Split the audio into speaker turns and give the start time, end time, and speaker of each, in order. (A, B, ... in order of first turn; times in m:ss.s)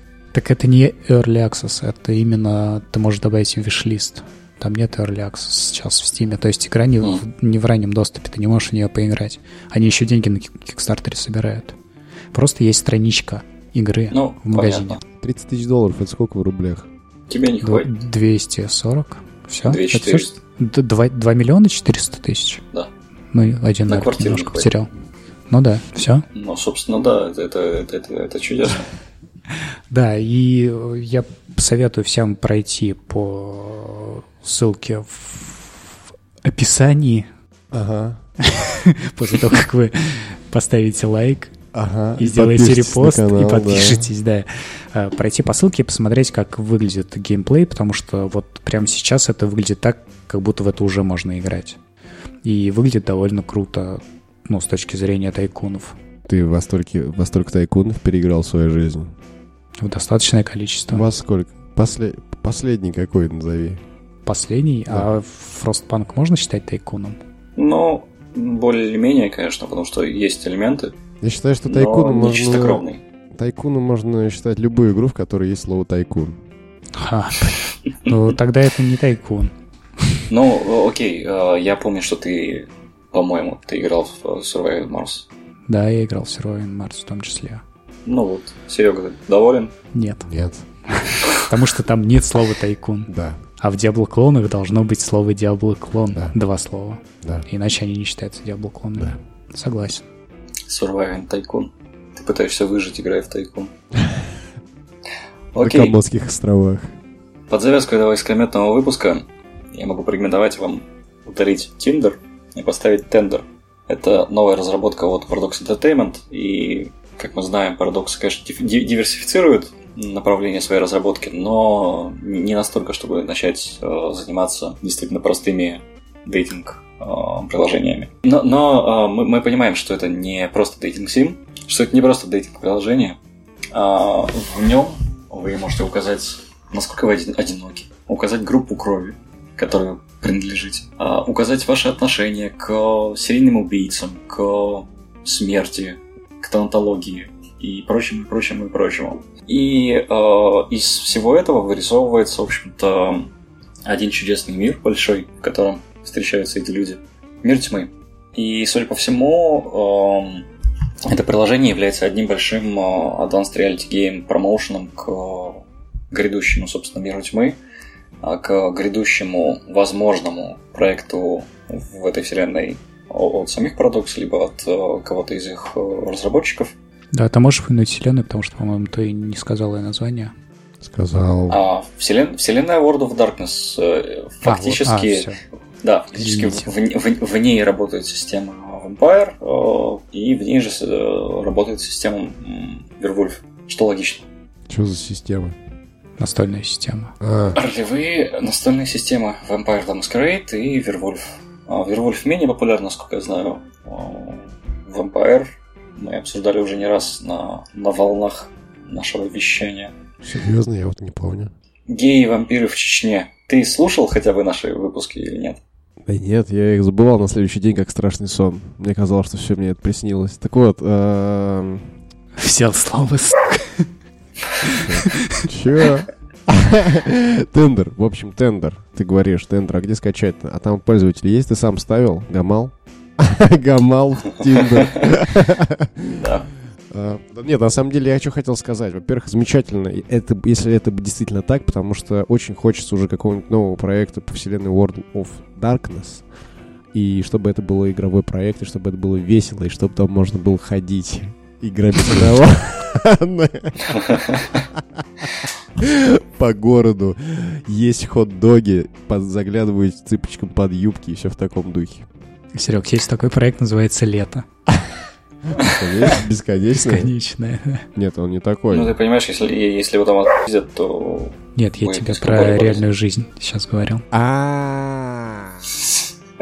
0:00.3-0:11.8 A
0:12.3-0:15.0 A
0:14.1-0:15.0 B
0:15.2-0:16.9 C
0:17.3-0:17.9 B
0:17.6-0:22.6 A
0:19.6-0:20.3 B
0:23.3-0:24.9 A
0:23.9-0:24.7 B
0:25.5-0:26.2 A
0:26.4-0:28.9 B
0:29.9-0:37.3 A
0:37.7-0:38.2 C
0:38.4-0:41.6 A
0:41.7-0:44.1 C
0:42.2-0:51.8 A
0:52.4-0:56.0 A
0:56.3-0:59.2 C
0:59.8-1:01.1 A
1:00.9-1:03.8 C
1:04.3-1:07.2 A
1:07.6-1:10.9 B
1:11.2-1:16.4 C
1:11.6-1:13.0 B
1:17.0-1:19.5 A
1:20.3-1:25.3 B
1:25.7-1:27.6 A
1:28.1-1:29.7 B
1:29.9-1:30.3 A
1:30.3-1:30.7 C
1:30.9-1:40.0 A
1:33.1-1:33.4 C
1:40.7-1:43.7 B
1:44.0-1:44.3 C
1:45.5-1:46.0 B
1:45.6-1:46.9 C
1:47.5-2:13.2 B
2:13.7-2:33.3 B
2:33.9-2:40.5 B
2:41.0-2:47.6 B
2:48.2-2:56.7 B
2:57.1-3:00.3 A
3:00.8-3:01.6 C
3:01.5-3:05.3 B
3:04.4-3:05.4 A
3:05.8-3:14.2 B
3:06.2-3:06.7 A
3:14.7-3:15.6 C
3:16.2-3:17.1 A
3:17.2-3:17.6 C
3:17.6-3:29.9 B
3:30.2-3:31.5 C
3:31.9-3:35.6 B
3:36.0-3:41.9 C
3:42.4-3:43.9 A
3:44.7-3:45.4 A
3:44.7-3:56.3 C
3:54.7-3:55.1 B
3:56.2-3:56.5 B
3:56.9-4:06.2 C
4:06.9-4:14.2 C
4:14.0-4:14.5 B
4:14.7-4:22.1 C
4:22.6-4:24.5 A
4:25.6-4:27.1 C
4:26.7-4:27.9 A
4:28.0-4:29.0 C
4:28.7-4:32.8 B
4:31.6-4:34.1 A
4:34.1-4:35.7 C